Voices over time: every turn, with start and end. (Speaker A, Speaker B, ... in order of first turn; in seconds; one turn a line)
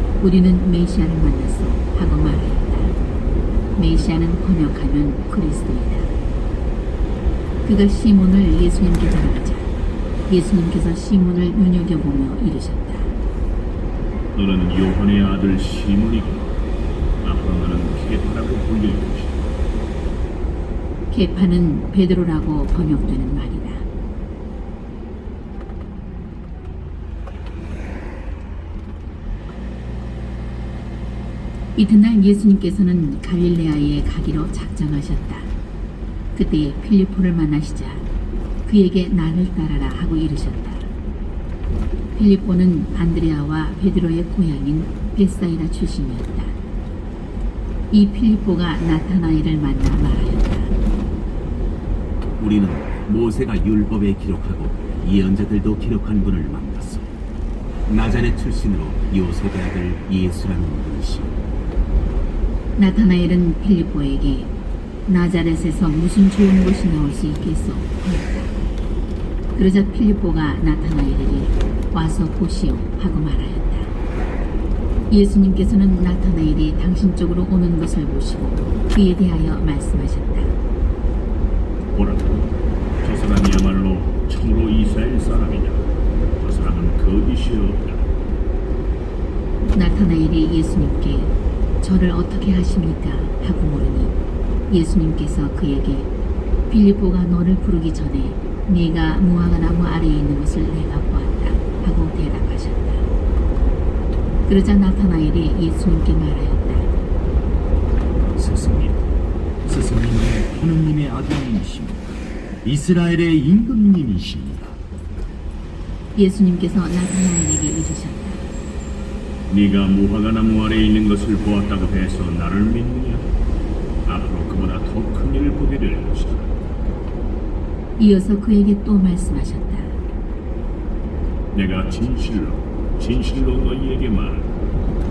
Speaker A: 0.2-3.0
Speaker A: 3.8-6.1
Speaker A: 7.6-9.7
Speaker A: 10.3-13.1
Speaker B: 14.3-16.5
Speaker B: 17.2-19.5
Speaker A: 21.1-23.9
Speaker A: 31.7-35.5
Speaker A: 36.3-38.1
Speaker A: 38.6-40.9
Speaker A: 42.1-46.6
Speaker A: 47.9-50.7
Speaker C: 52.4-57.1
Speaker C: 57.9-61.3
Speaker A: 62.7-64.5
Speaker A: 65.0-68.6
Speaker A: 69.5-73.9
Speaker A: 75.1-80.5
Speaker B: 81.9-85.8
Speaker B: 86.4-88.0
Speaker A: 89.7-94.2
Speaker A: 94.7-96.1
Speaker A: 96.7-103.1
Speaker A: 104.4-106.9
Speaker D: 108.3-109.1
Speaker D: 109.7-114.8
Speaker A: 116.1-118.5
Speaker B: 119.5-123.3
Speaker B: 124.0-126.5
Speaker A: 128.0-130.0
Speaker B: 131.5-134.5